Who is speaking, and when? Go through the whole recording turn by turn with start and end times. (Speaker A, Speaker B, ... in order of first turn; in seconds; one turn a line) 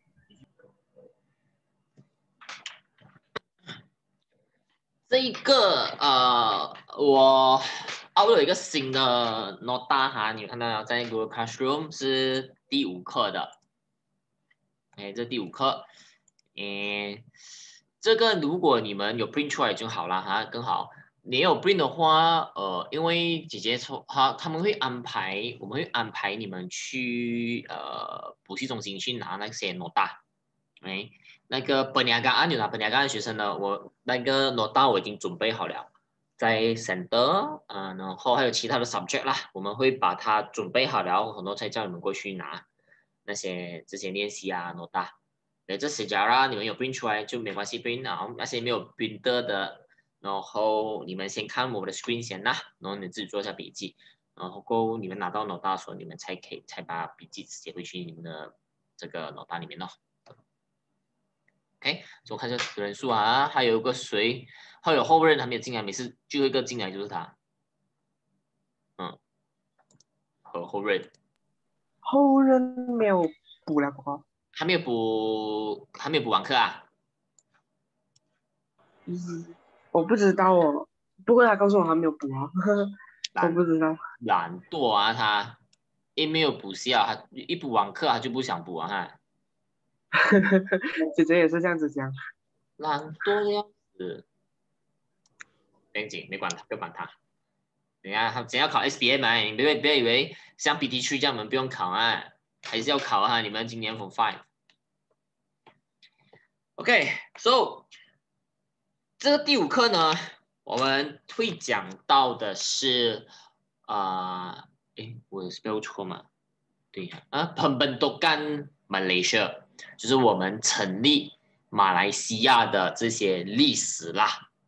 Speaker A: 5.1-13.5
Speaker A: 15.0-15.9
Speaker A: 16.6-17.2
Speaker A: 18.0-30.2
Speaker A: 30.8-42.6
Speaker A: 43.3-45.2
Speaker A: 45.7-60.0
Speaker A: 61.8-67.4
Speaker A: 70.5-71.1
Speaker B: 72.0-74.2
Speaker A: 74.5-76.9
Speaker B: 79.1-84.0
Speaker A: 83.3-83.6
Speaker A: 84.2-85.6
Speaker A: 86.2-89.2
Speaker B: 90.2-92.2
Speaker A: 92.8-94.3
Speaker A: 95.9-97.1
Speaker A: 98.0-104.5
Speaker A: 106.8-107.9
Speaker A: 109.2-113.3
Speaker A: 113.9-116.3
Speaker A: 116.9-124.5